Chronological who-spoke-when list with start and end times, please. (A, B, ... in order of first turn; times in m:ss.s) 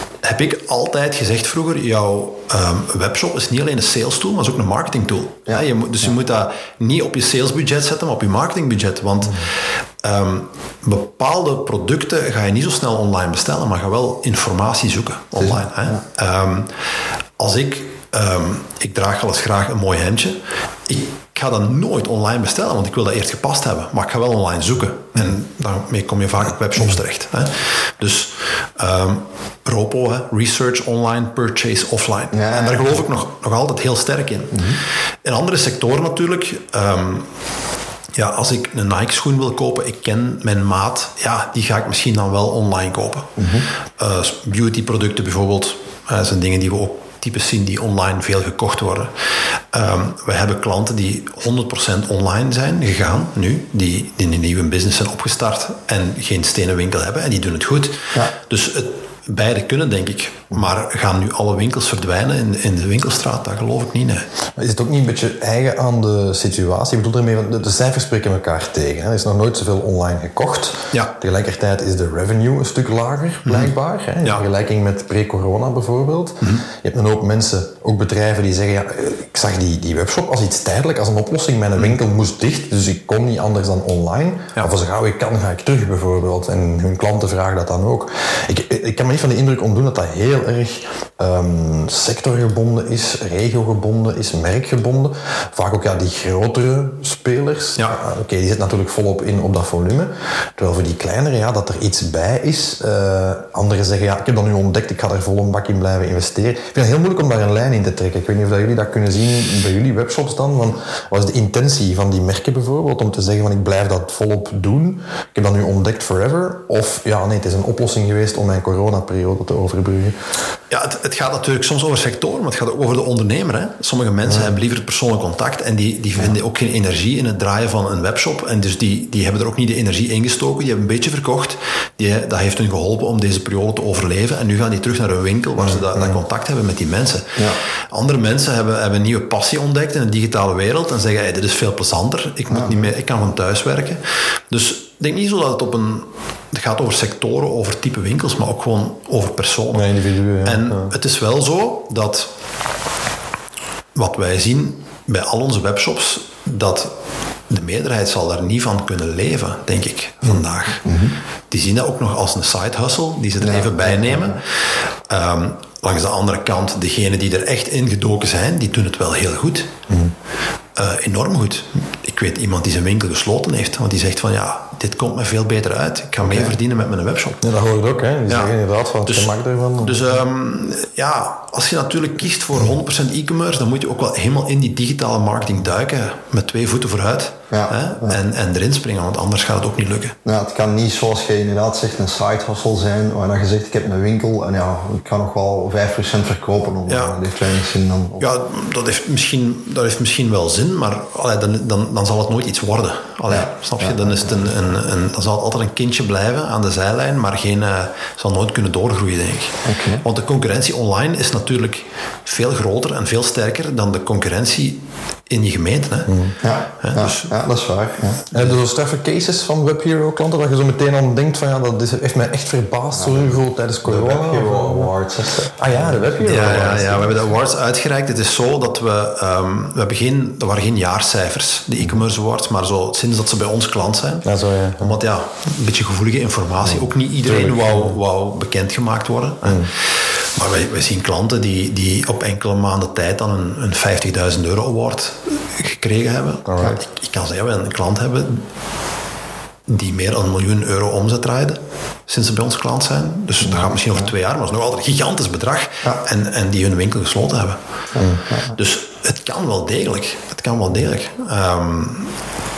0:00.2-0:09.5 A
0:05.5-0:06.1 B
0:10.0-0:16.7 A
0:15.4-0:16.0 B
0:17.4-0:34.7 A
0:32.3-0:33.0 B
0:34.5-0:34.8 B
0:35.2-0:37.3 A
0:38.2-0:43.3 A
0:43.4-0:43.7 B
0:44.0-0:49.1 A
0:49.7-1:04.2 A
1:04.6-2:00.2 C
1:13.5-1:13.7 A
2:00.7-2:17.4 A
2:04.3-2:04.5 C
2:15.6-2:16.2 C
2:17.9-2:29.9 A
2:22.5-2:22.9 B
2:29.7-2:30.9 C
2:30.4-2:32.3 A
2:34.0-2:36.9 A
2:37.5-2:40.8 A
2:40.8-2:41.2 B
2:41.5-2:44.4 A
2:43.4-2:44.4 B
2:45.1-2:49.7 A
2:50.8-2:57.4 A
2:56.2-2:56.5 B
2:57.4-3:00.1 C
2:58.3-2:58.5 A
2:59.1-3:10.2 A
3:07.5-3:08.2 B
3:10.2-3:18.3 B
3:16.9-3:17.2 A
3:18.2-3:36.1 A
3:23.3-3:24.5 B
3:29.6-3:30.0 B
3:36.1-3:36.3 C
3:36.4-3:38.3 B
3:36.8-3:37.3 A
3:38.3-3:47.2 C
3:42.9-3:46.0 B
3:46.2-3:54.3 A
3:54.2-3:55.0 C
3:54.8-4:08.4 A
3:57.2-3:58.0 C
3:59.4-3:59.7 C
4:06.4-4:06.8 C
4:09.7-4:17.6 A
4:13.4-4:14.1 B
4:18.0-4:18.6 B
4:18.6-4:22.1 A